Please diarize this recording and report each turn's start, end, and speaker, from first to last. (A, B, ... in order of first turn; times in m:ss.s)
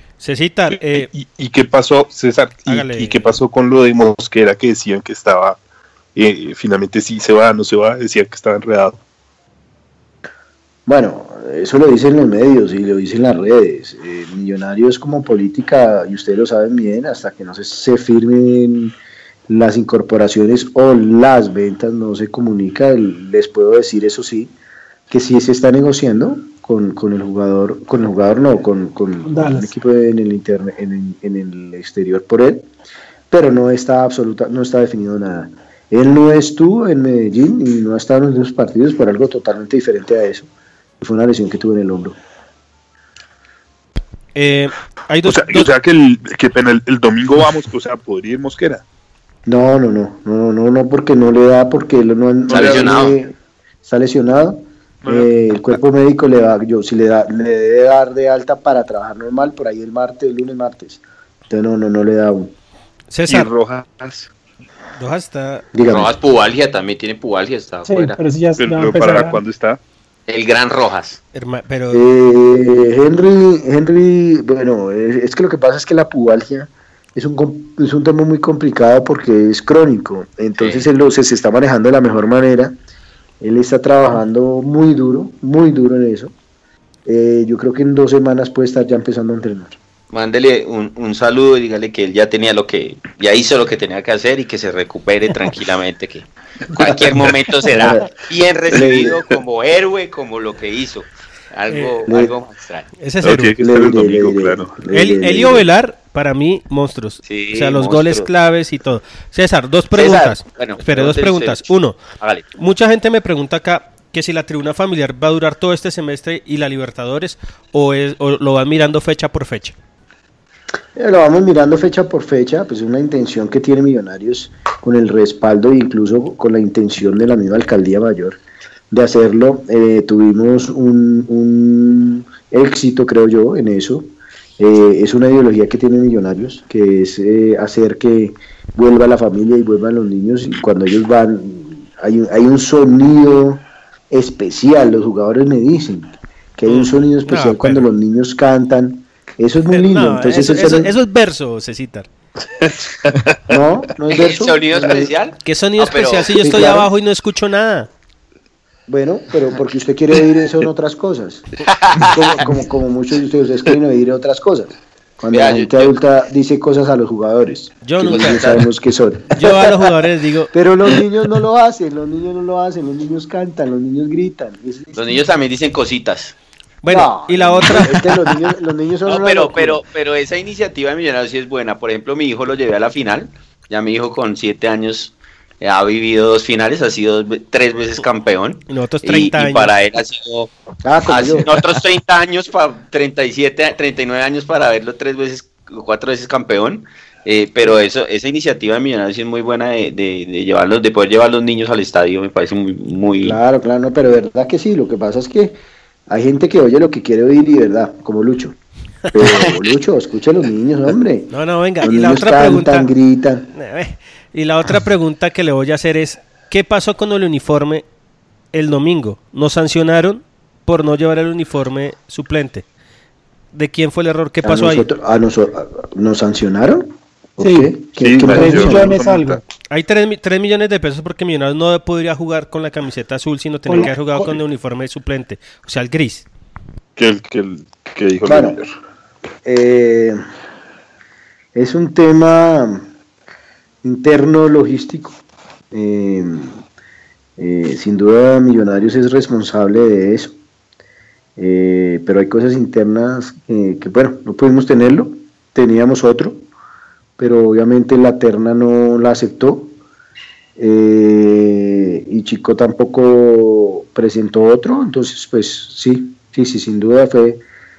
0:00.2-0:01.1 A
0:00.7-0:05.6 B
0:02.7-0:03.3 A
0:06.2-0:09.0 B
0:10.9-0:18.9 C
0:19.5-0:24.5 C
0:25.1-0:32.7 C
0:29.2-0:29.7 D
0:33.3-0:40.5 C
0:41.0-0:42.2 C
0:44.4-0:45.7 A
0:45.2-0:48.8 B
0:49.5-0:53.3 C
0:52.5-0:52.8 B
0:52.5-0:53.2 E
0:53.8-1:02.5 C
0:55.0-0:55.8 B
1:03.1-1:03.5 A
1:03.3-1:04.3 B
1:05.0-1:05.6 A
1:05.7-1:06.2 C
1:05.9-1:08.2 E
1:07.9-1:09.4 D
1:08.6-1:09.8 B
1:10.3-1:11.2 E
1:11.3-1:12.0 A
1:11.9-1:22.8 C
1:20.6-1:20.9 E
1:23.4-1:26.3 C
1:27.1-1:29.8 C
1:30.1-1:42.9 E
1:36.8-1:37.0 C
1:37.6-1:38.1 C
1:38.7-1:39.2 C
1:38.8-1:39.1 B
1:41.7-1:42.0 A
1:42.1-1:42.4 C
1:43.0-1:43.6 A
1:43.2-1:44.8 B
1:43.6-1:45.7 C
1:44.9-1:52.0 A
1:47.2-1:48.3 E
1:49.9-1:52.5 E
1:52.6-1:59.8 A
2:01.0-2:08.4 C
2:08.9-2:30.9 C
2:26.7-2:27.9 A
2:29.7-2:32.1 A
2:32.6-2:33.6 B
2:33.5-2:35.2 C
2:34.1-2:36.4 E
2:35.4-2:37.9 A
2:36.3-2:36.9 C
2:38.9-2:41.4 C
2:41.7-2:42.2 E
2:42.0-2:49.9 C
2:45.3-2:46.0 E
2:47.8-2:48.5 A
2:48.1-2:48.7 E
2:49.4-2:50.5 A
2:50.5-2:55.3 C
2:54.9-2:56.4 E
2:56.8-2:58.1 A
2:56.9-2:59.8 C
2:59.1-3:10.5 E
3:08.7-3:09.7 A
3:10.8-3:11.8 C
3:11.1-3:23.4 E
3:23.2-3:25.6 C
3:26.1-3:28.6 C
3:29.1-3:33.5 C
3:29.2-3:29.6 E
3:31.3-3:32.9 A
3:33.5-3:37.8 A
3:38.5-3:42.6 A
3:43.5-3:44.9 A
3:44.4-3:48.9 C
3:47.4-3:47.7 D
3:47.9-3:49.4 B
3:48.3-3:49.4 D
3:49.7-3:56.3 A
3:53.7-3:54.4 D
3:57.0-3:58.7 B
3:58.2-3:58.6 C
3:59.4-4:00.2 C
4:01.6-4:02.8 C
4:03.8-4:05.2 C
4:05.7-4:06.6 C
4:07.4-4:10.4 C
4:11.4-4:16.5 C
4:17.2-4:19.8 C
4:20.6-4:27.4 C